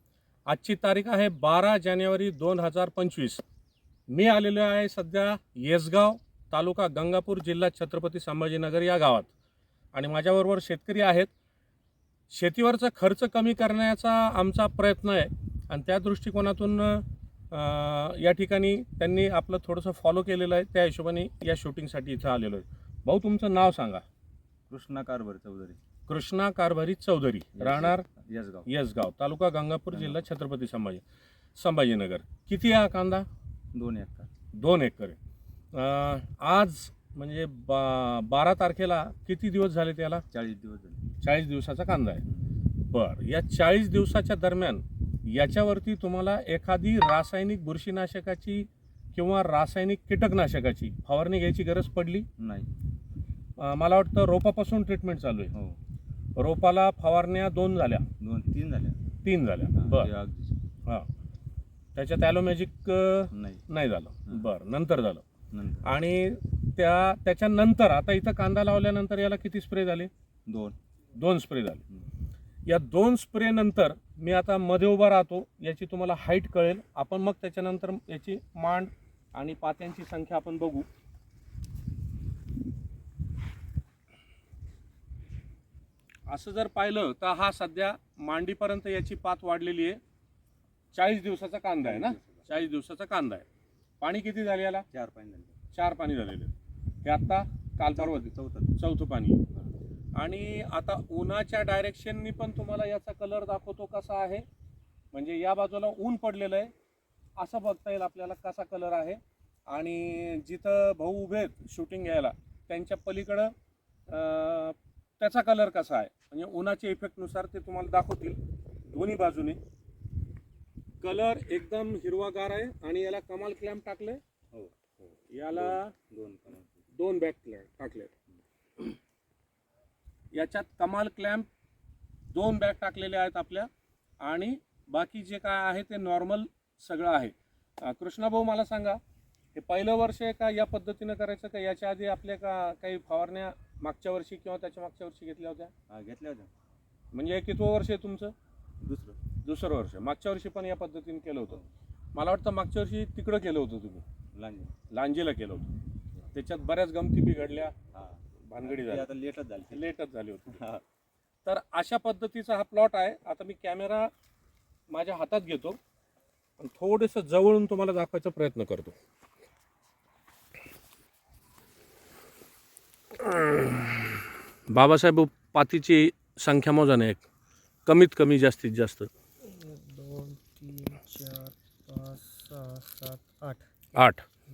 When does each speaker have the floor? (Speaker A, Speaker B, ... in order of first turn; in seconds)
Speaker A: 0.5-3.4, 4.1-9.3, 9.9-11.3, 12.3-24.0, 26.1-28.0, 28.7-31.0, 31.6-33.2, 34.5-35.2, 35.7-40.2, 41.2-42.2, 42.9-52.3, 53.6-55.5, 56.4-58.0, 59.2-60.1, 61.9-65.2, 65.8-70.1, 71.2-71.8, 72.7-80.9, 86.3-90.0, 90.9-93.4, 94.0-94.8, 95.7-96.5, 97.0-99.4, 100.2-104.4, 105.1-106.7, 107.4-113.5, 114.1-119.6, 121.0-124.2, 125.3-125.9, 126.9-128.1, 130.3-131.4, 132.3-133.7, 134.2-139.0, 139.5-145.7, 147.1-148.3, 149.4-151.6, 152.1-154.0, 154.9-155.7, 156.3-157.7, 158.4-159.1, 159.7-160.6, 161.4-164.1, 164.9-165.8, 166.6-168.9, 173.2-174.1, 174.7-177.2, 177.8-179.1, 183.9-184.2
Speaker B: 24.7-25.8, 27.5-28.7, 29.9-30.2, 33.7-34.3, 40.3-41.0, 52.4-52.7, 55.5-55.8, 58.2-59.0, 59.7-60.7, 63.3-63.6, 65.5-65.9, 70.5-70.8, 91.8-92.5, 94.9-95.6, 97.9-98.8, 124.5-126.8, 145.9-146.5, 148.8-149.2, 154.3-154.7, 157.9-159.8, 160.5-160.8
Speaker C: 179.4-183.6